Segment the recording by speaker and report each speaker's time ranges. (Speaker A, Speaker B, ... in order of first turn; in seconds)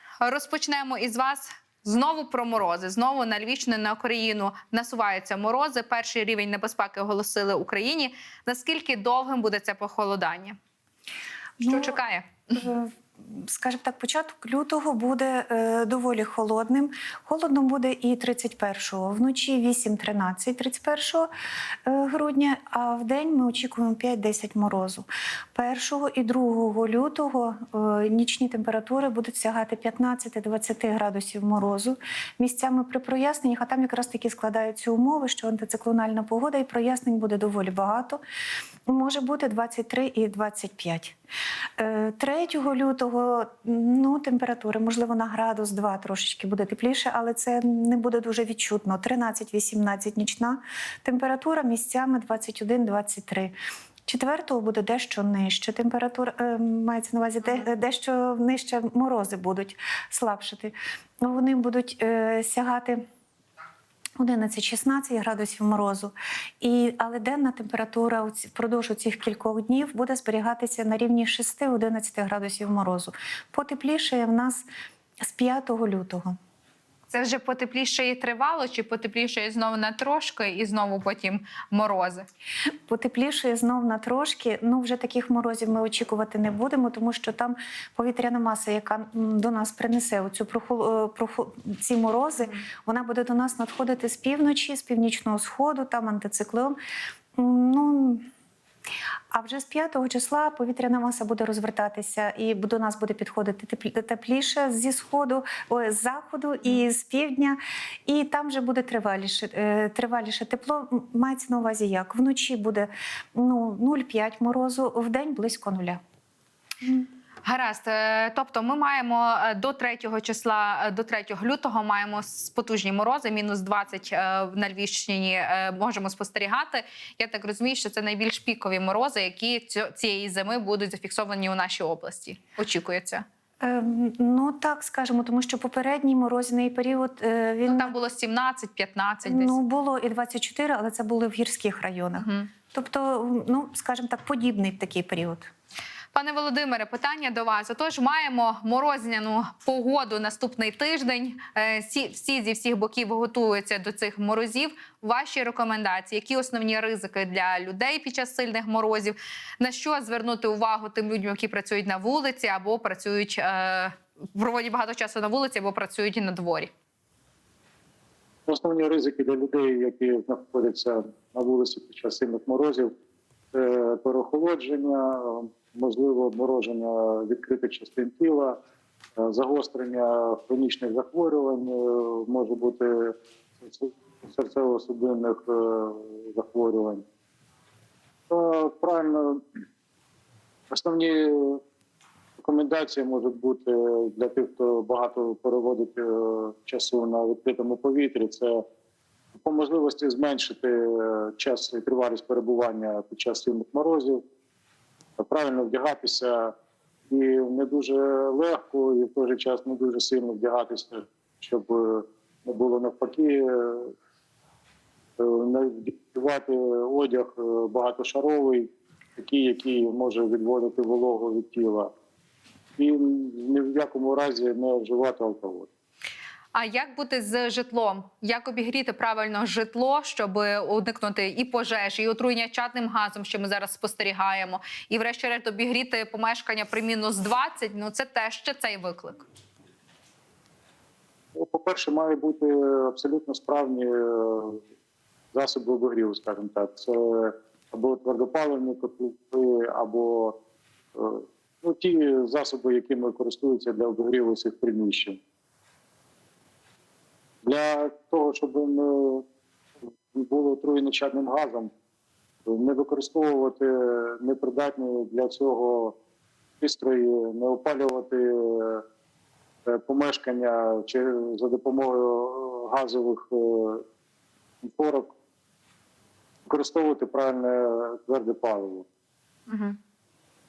Speaker A: 0.2-10.6, 11.6-12.5, 77.1-82.2, 117.4-133.2, 137.7-139.6, 142.2-142.5, 146.1-166.7, 226.5-239.2, 279.5-279.8
Speaker B: 11.6-12.0, 12.5-21.3, 21.9-38.2, 38.9-41.1, 41.8-53.5, 54.1-63.0, 64.2-74.7, 75.2-76.3, 82.9-96.8, 97.3-98.2, 99.3-116.0, 133.6-137.9, 139.2-145.5
Speaker C: 168.5-172.9, 173.5-178.6, 179.2-187.0, 188.3-189.4, 190.7-191.6, 192.4-198.6, 199.4-204.2, 205.2-206.5, 207.1-213.9, 215.2-221.9, 222.8-225.7, 241.3-244.6, 245.3-250.4, 250.9-255.2, 257.4-259.2, 260.1-261.7, 262.5-265.9, 266.6-268.8, 269.6-273.8, 274.6-275.1, 276.5-278.9